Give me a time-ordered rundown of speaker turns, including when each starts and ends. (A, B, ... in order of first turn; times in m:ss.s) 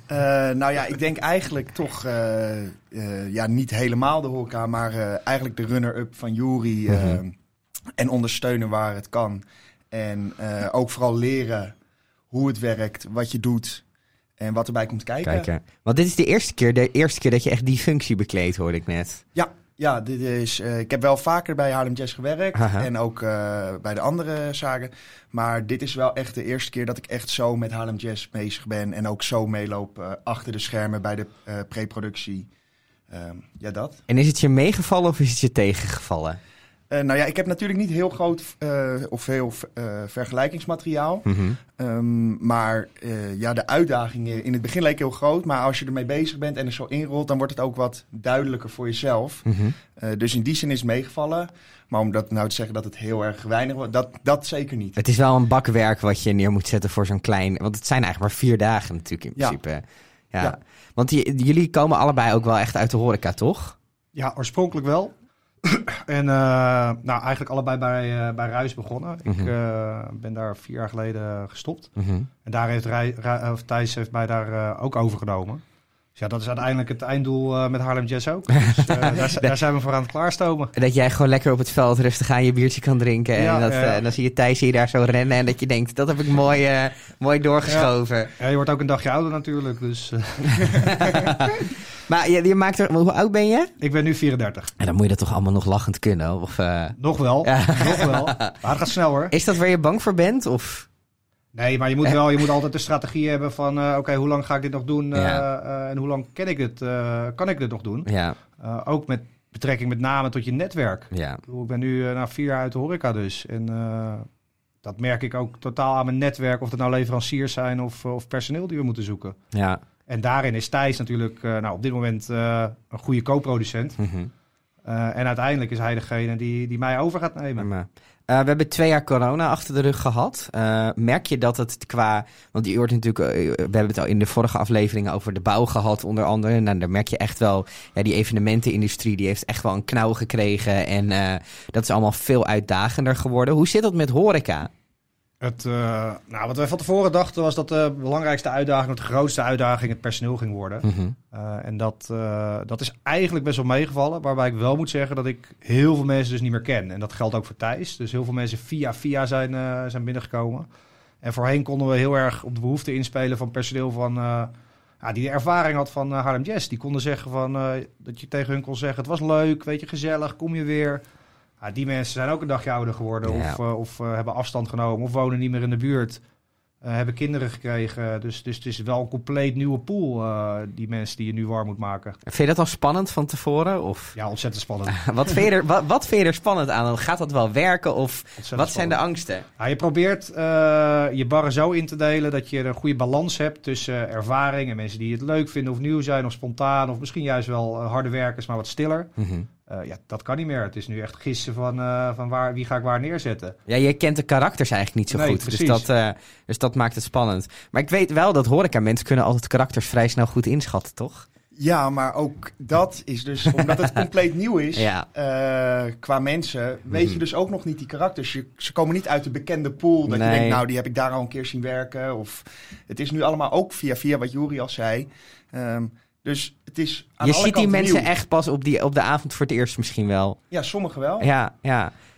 0:00.1-0:07.3 A
0:06.9-0:07.2 B
0:08.0-0:11.7 A
0:12.3-0:13.8 A
0:14.4-0:15.5 A
0:15.2-0:19.2 B
0:19.4-0:32.5 A
0:22.6-0:22.9 B
0:33.1-0:34.0 A
0:34.1-0:36.4 B
0:36.9-0:41.3 A
0:41.2-0:41.6 B
0:41.8-0:49.4 A
0:49.5-0:49.8 B
0:50.0-0:55.0 A
0:55.0-0:59.8 B
1:00.3-1:03.8 B
1:04.2-1:11.9 C
1:09.3-1:09.5 B
1:12.0-1:12.3 B
1:12.4-1:15.6 C
1:16.2-1:20.7 C
1:18.9-1:19.5 B
1:20.8-1:28.3 B
1:23.4-1:24.1 C
1:27.7-1:31.1 C
1:30.6-1:33.7 B
1:33.8-1:34.7 C
1:34.8-1:38.5 B
1:37.0-1:39.4 C
1:39.3-1:40.9 B
1:41.5-1:54.3 C
1:45.1-1:45.5 B
1:48.1-1:48.4 B
1:51.1-1:51.4 B
1:54.8-1:59.4 C
1:59.5-1:59.8 B
2:00.1-2:04.0 C
2:04.0-2:04.3 B
2:04.8-2:07.7 C
2:07.6-2:24.7 B
2:25.4-2:40.7 C
2:30.8-2:31.2 B
2:41.2-2:51.0 C
2:51.6-2:56.2 C
2:53.2-2:53.6 B
2:56.8-3:02.2 C
3:02.3-3:04.2 B
3:04.2-3:05.0 C
3:04.9-3:09.4 B
3:08.4-3:09.0 C
3:09.6-3:19.1 C
3:19.2-3:19.5 B
3:19.7-3:23.6 C
3:23.7-3:31.3 B
3:25.1-3:25.9 C
3:31.6-3:48.1 A
3:34.8-3:35.1 B
3:36.9-3:37.2 B
3:40.1-3:40.6 B
3:47.2-3:50.4 B
3:50.5-3:51.3 A
3:51.2-3:51.9 B